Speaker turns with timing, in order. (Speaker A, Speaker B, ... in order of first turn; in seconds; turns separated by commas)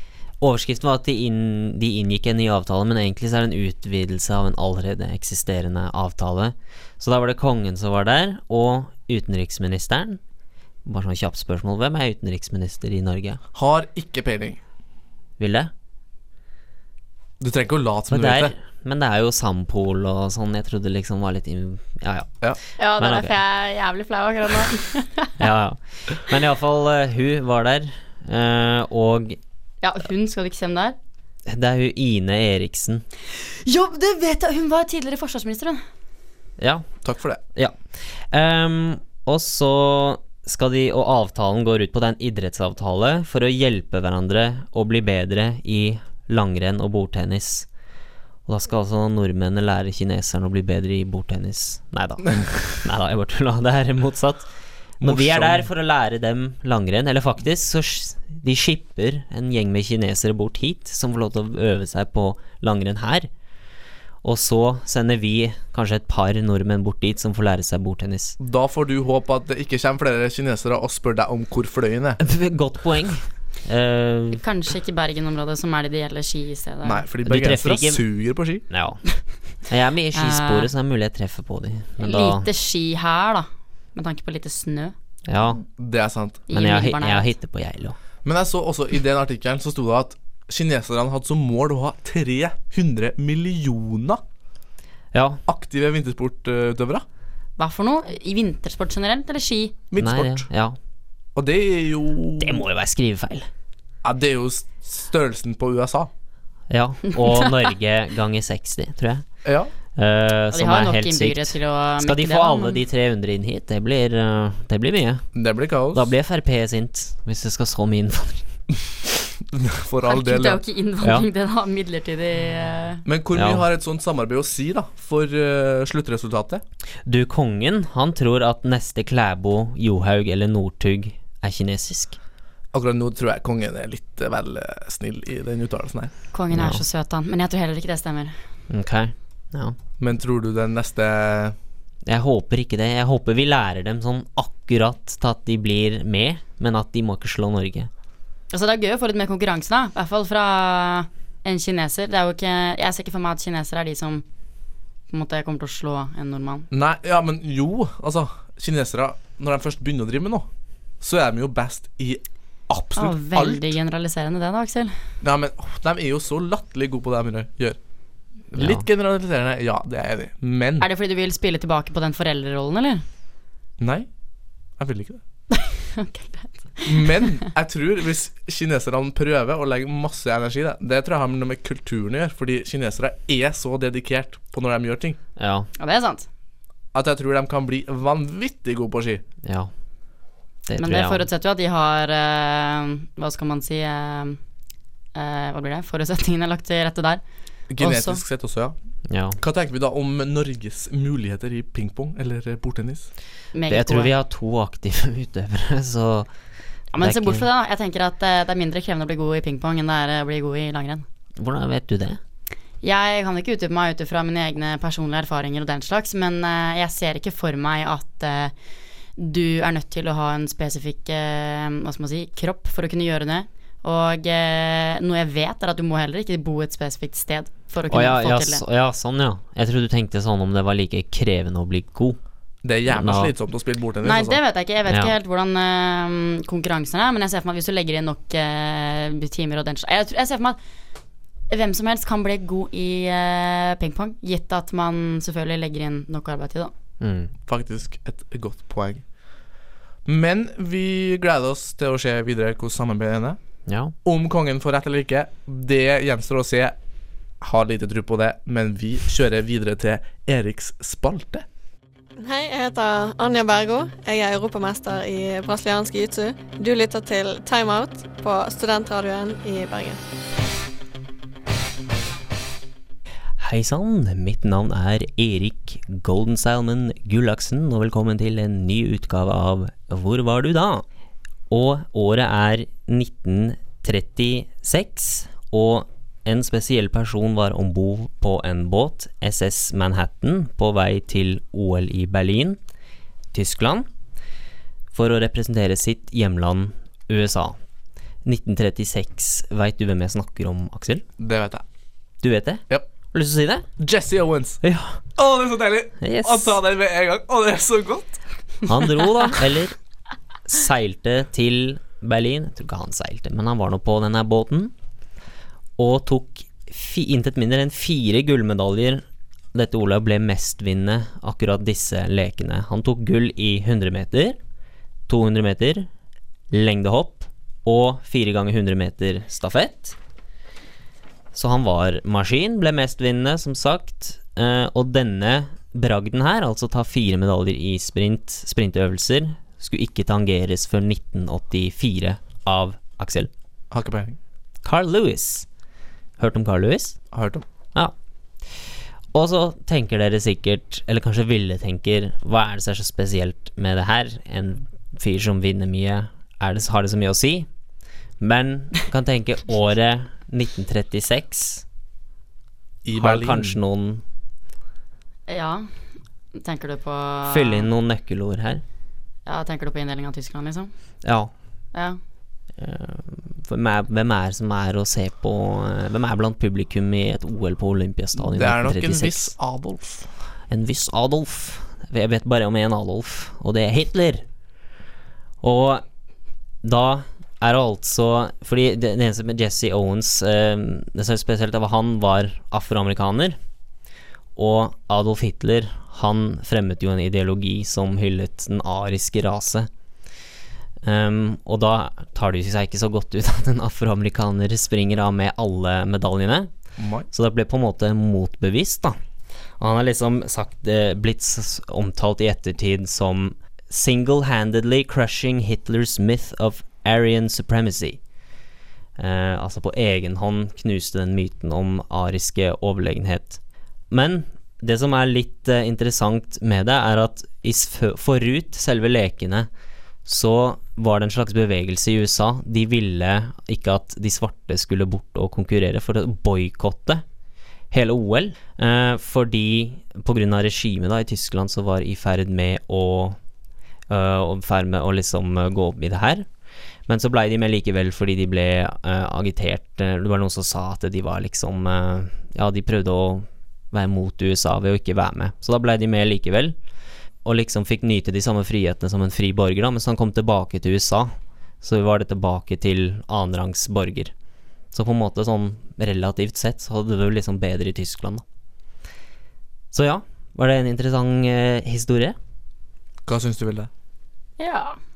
Speaker A: 0.4-10.2, Speaker A: 10.8-13.4, Speaker B: 13.5-14.6, Speaker A: 15.4-15.7, Speaker B: 17.4-18.5, Speaker A: 18.1-22.4, Speaker C: 22.8-25.3, Speaker A: 23.0-23.4, Speaker A: 25.4-29.4, Speaker C: 29.8-31.0, Speaker A: 31.5-33.0, Speaker C: 33.3-35.8, Speaker A: 36.6-36.9, Speaker B: 37.0-37.4, Speaker A: 37.5-47.7, Speaker A: 48.5-54.5, Speaker B: 55.0-55.7, Speaker A: 55.0-63.3, Speaker A: 64.2-68.4, Speaker B: 68.4-72.2, Speaker A: 72.2-74.4, Speaker C: 74.3-77.0, Speaker B: 76.8-78.7, Speaker A: 77.2-78.0, Speaker A: 78.7-79.0, Speaker A: 79.6-82.5, Speaker C: 80.2-80.7, Speaker C: 82.0-84.9, Speaker A: 85.3-85.6, Speaker B: 85.7-86.5, Speaker C: 86.5-87.3, Speaker A: 86.5-88.0, Speaker B: 88.2-94.2, Speaker A: 95.1-95.4, Speaker B: 95.5-97.0, Speaker C: 97.6-99.8, Speaker B: 99.9-100.5, Speaker A: 100.0-100.8, Speaker B: 101.4-102.6, Speaker A: 102.4-103.5, Speaker B: 104.0-106.1, Speaker A: 106.7-109.2, Speaker C: 107.2-107.5, Speaker B: 109.5-109.7, Speaker A: 110.0-115.3, Speaker C: 110.5-112.8, Speaker B: 115.3-116.1, Speaker A: 115.9-118.5, Speaker B: 119.3-120.6, Speaker C: 120.0-123.0, Speaker A: 121.0-121.3, Speaker B: 123.1-126.6, Speaker A: 123.3-123.7, Speaker A: 127.1-132.2, Speaker B: 132.7-136.1, Speaker C: 136.3-138.3, Speaker A: 136.5-136.8, Speaker A: 138.7-139.8, Speaker B: 140.0-141.6, Speaker A: 142.1-147.9, Speaker C: 148.5-154.2, Speaker C: 155.1-156.7, Speaker B: 156.7-160.5, Speaker B: 161.0-163.8, Speaker C: 163.0-164.9, Speaker B: 165.2-167.8, Speaker B: 168.5-170.9, Speaker A: 168.6-168.8, Speaker C: 170.8-173.0, Speaker B: 173.8-174.1, Speaker B: 174.8-175.2, Speaker C: 175.5-177.2, Speaker B: 176.9-185.2, Speaker A: 185.4-185.7, Speaker C: 185.8-186.3, Speaker B: 186.9-189.2, Speaker A: 189.4-189.7, Speaker A: 190.7-191.3, Speaker C: 190.8-194.4, Speaker C: 195.2-197.2, Speaker B: 197.7-198.8, Speaker C: 197.8-198.2, Speaker A: 199.1-199.4, Speaker B: 199.4-203.1, Speaker C: 203.5-204.1, Speaker A: 203.7-206.3, Speaker C: 206.9-211.1, Speaker A: 207.0-207.5, Speaker A: 211.4-212.2, Speaker C: 212.8-218.5, Speaker C: 219.2-228.6, Speaker A: 227.9-232.2, Speaker B: 232.6-234.4, Speaker A: 232.9-233.3, Speaker C: 234.0-240.6, Speaker A: 234.9-235.1, Speaker C: 241.5-246.7, Speaker A: 247.0-247.3, Speaker B: 247.5-249.0, Speaker B: 250.1-253.4, Speaker A: 253.7-253.9, Speaker B: 254.0-256.8, Speaker B: 257.4-261.4, Speaker D: 262.2-270.0, Speaker A: 273.4-280.8, Speaker A: 281.5-292.6, Speaker A: 293.3-293.9, Speaker A: 294.9-297.6, Speaker A: 298.2-301.1, Speaker B: 301.2-301.6, Speaker A: 302.2-303.7, Speaker B: 303.8-304.6, Speaker A: 304.6-305.0, Speaker B: 305.2-308.2, Speaker A: 306.0-306.6, Speaker A: 308.7-309.7, Speaker A: 310.5-314.7, Speaker A: 315.8-324.4, Speaker A: 325.1-325.9, Speaker A: 326.5-330.0, Speaker A: 331.3-343.3, Speaker B: 343.7-344.2, Speaker A: 344.6-345.5, Speaker A: 346.2-347.0, Speaker B: 347.1-347.4, Speaker A: 348.5-357.5, Speaker A: 358.2-361.6, Speaker B: 362.8-363.6, Speaker A: 363.0-364.0, Speaker C: 365.3-365.7, Speaker C: 366.3-367.7, Speaker A: 367.2-368.6, Speaker C: 369.3-370.7, Speaker A: 371.0-371.3, Speaker A: 372.6-379.3, Speaker B: 378.2-380.1, Speaker A: 380.5-384.2, Speaker A: 385.4-385.8, Speaker A: 386.6-393.4, Speaker A: 394.4-399.7, Speaker A: 400.8-406.5, Speaker B: 406.8-407.1, Speaker A: 407.1-409.0, Speaker A: 409.6-418.0, Speaker A: 419.0-423.4, Speaker A: 423.9-429.5, Speaker A: 430.1-437.0, Speaker A: 437.7-443.2, Speaker A: 443.9-446.3, Speaker A: 446.9-456.6, Speaker A: 457.2-464.1, Speaker A: 464.7-468.2, Speaker A: 469.7-472.2, Speaker B: 473.1-473.7, Speaker C: 474.4-474.8